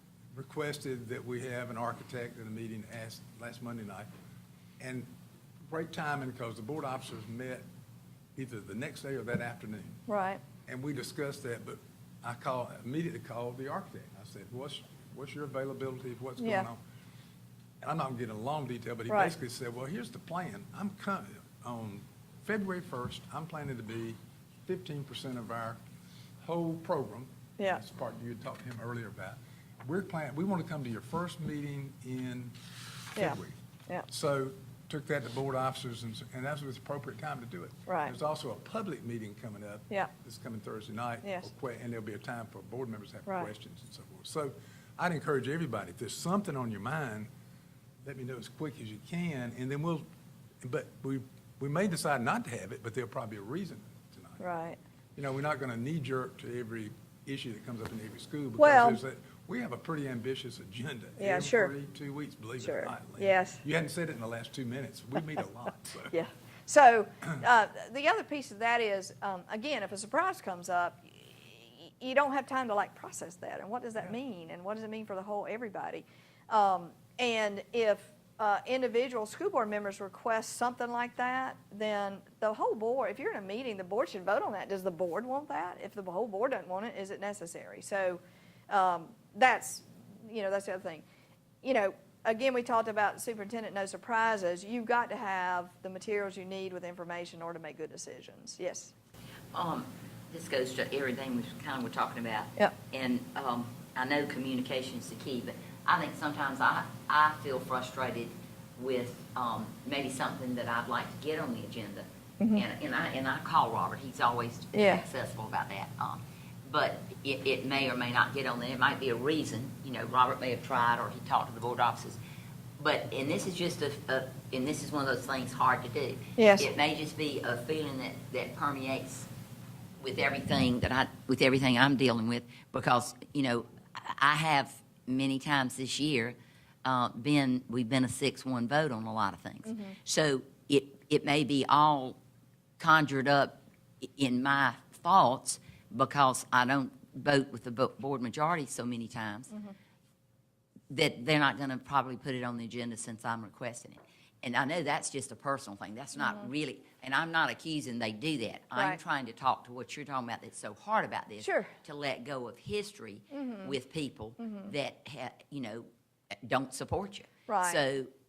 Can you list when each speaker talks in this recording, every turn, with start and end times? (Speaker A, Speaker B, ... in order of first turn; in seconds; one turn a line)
Speaker A: 0.3-4.1
Speaker A: 4.8-5.1
Speaker A: 5.7-7.6
Speaker A: 8.3-10.0
Speaker B: 10.1-10.4
Speaker A: 10.6-16.8
Speaker B: 16.4-16.7
Speaker A: 17.8-25.8
Speaker B: 19.1-19.3
Speaker A: 26.4-32.5
Speaker A: 33.1-33.5
Speaker B: 33.1-34.1
Speaker A: 34.1-47.3
Speaker B: 37.9-38.1
Speaker B: 41.2-41.5
Speaker B: 43.3-43.5
Speaker A: 48.0-50.0
Speaker A: 50.6-54.4
Speaker B: 54.4-54.8
Speaker A: 55.1-66.1
Speaker B: 58.6-59.0
Speaker B: 61.2-61.7
Speaker B: 62.6-63.6
Speaker B: 66.1-91.0
Speaker B: 91.6-98.9
Speaker C: 99.5-122.2
Speaker B: 112.4-112.6
Speaker B: 114.7-115.0
Speaker C: 122.8-129.3
Speaker B: 126.4-126.7
Speaker C: 130.0-142.2
Speaker B: 139.6-139.9
Speaker C: 142.8-149.5
Speaker C: 150.9-165.8
Speaker B: 156.2-156.5
Speaker B: 158.7-159.0
Speaker B: 161.4-161.7
Speaker B: 163.3-163.8
Speaker B: 164.4-164.7
Speaker C: 166.4-168.1
Speaker B: 167.5-167.8